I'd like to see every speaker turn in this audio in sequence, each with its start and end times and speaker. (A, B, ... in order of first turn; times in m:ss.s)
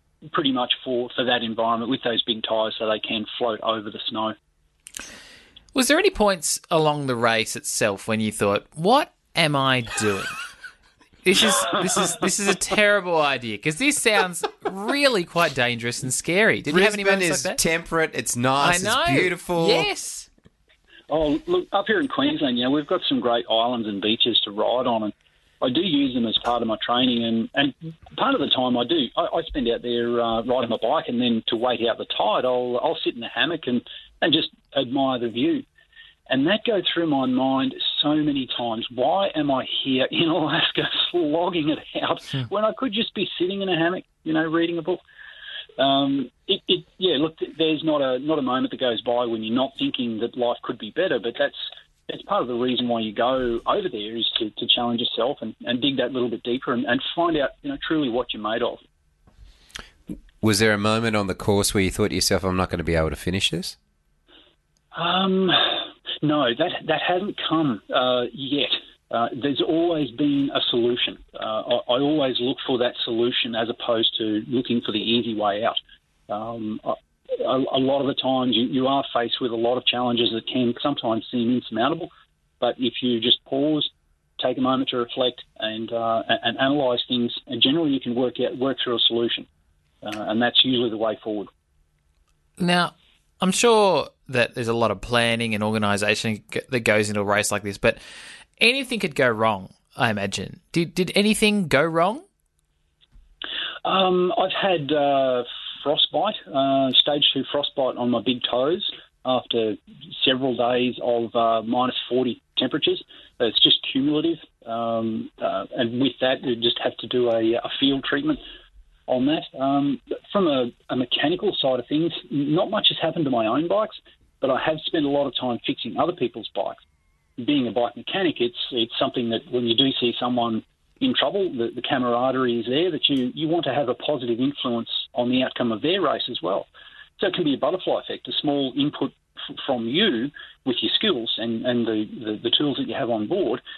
0:00.3-0:04.3 A
0:05.7-0:10.4 B
0:11.2-0:17.6 B
0:16.7-0:19.9 C
0:18.6-0:20.3 B
0:21.1-0:35.6 A
0:36.3-0:45.0 A
0:45.8-0:51.6 A
0:52.1-0:58.8 A
1:00.4-1:03.8 C
1:04.9-1:15.8 A
1:16.3-1:22.1 A
1:22.6-1:29.5 A
1:30.0-1:31.5 A
1:32.6-1:38.0 B
1:38.6-1:42.2 B
1:43.8-1:58.4 A
1:59.1-2:06.8 A
2:07.4-2:16.7 A
2:17.2-2:23.6 A